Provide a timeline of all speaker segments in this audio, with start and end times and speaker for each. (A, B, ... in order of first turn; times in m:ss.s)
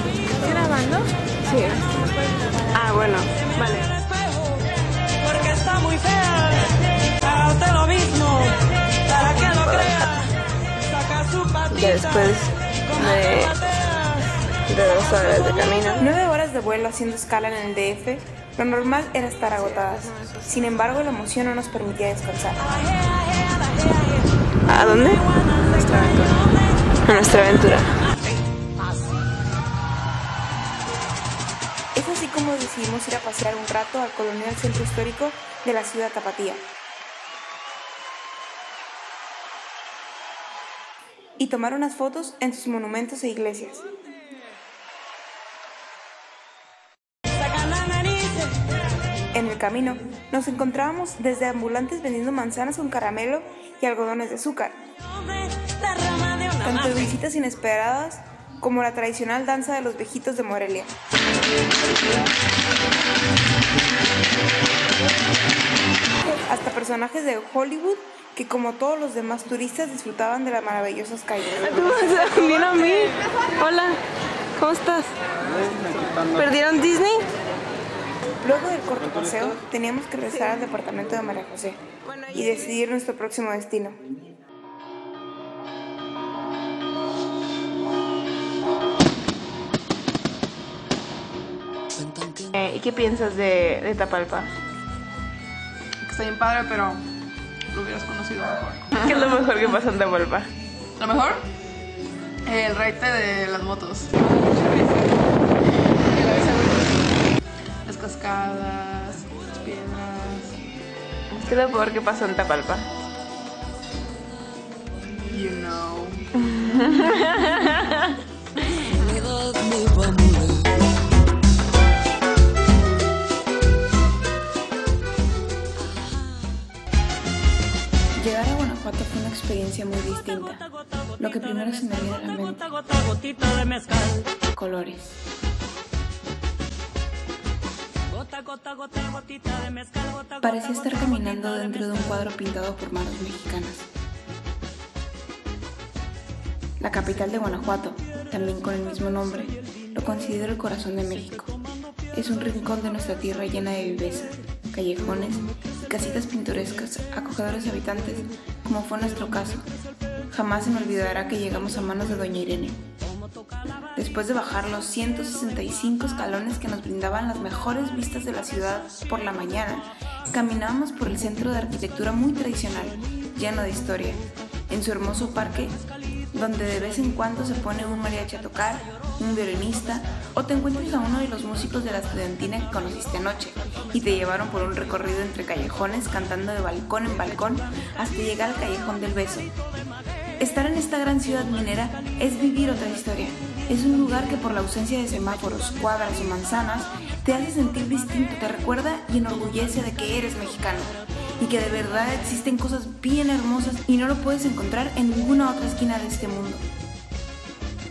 0:00.4-0:03.9 A
0:05.3-0:08.6 B
0:09.2-0:09.4 B
0:09.2-0:10.2 A
0:11.1-0:11.7 B
0:11.7-0:13.9 A
0:14.6-0:16.0 A
0:16.0-0:22.7 C
0:24.7-0:26.5 A
0:27.0-0:28.1 A
0:31.9-0:36.6 C
0:41.4-0:43.8 C
0:47.5-0:48.6 B
0:49.3-0:54.8 C
0:55.6-0:56.6 B
0:56.6-1:00.9 C
1:06.3-1:12.2 C
1:11.6-1:14.0 A
1:14.6-1:17.3 A
1:18.4-1:24.0 C
1:32.0-1:32.4 B
1:32.5-1:34.5 A
1:36.0-1:37.0 D
1:37.7-1:39.4 D
1:39.0-1:40.5 A
1:41.0-1:41.5 D
1:42.4-1:45.2 D
1:46.0-1:47.0 D
1:47.9-1:50.6 D
1:51.4-1:52.9 A
1:55.3-1:56.2 D
1:56.4-1:58.0 A
1:59.2-2:00.7 B
2:08.2-2:10.7 C
2:11.2-2:12.7 C
2:13.2-2:14.2 B
2:14.5-2:15.1 C
2:18.2-2:20.1 B
2:20.4-2:23.9 C
2:26.8-2:31.5 C
2:32.1-2:39.7 C
2:40.3-2:42.8 C
2:43.9-2:55.8 C
2:56.3-3:09.5 C
3:10.4-3:26.6 C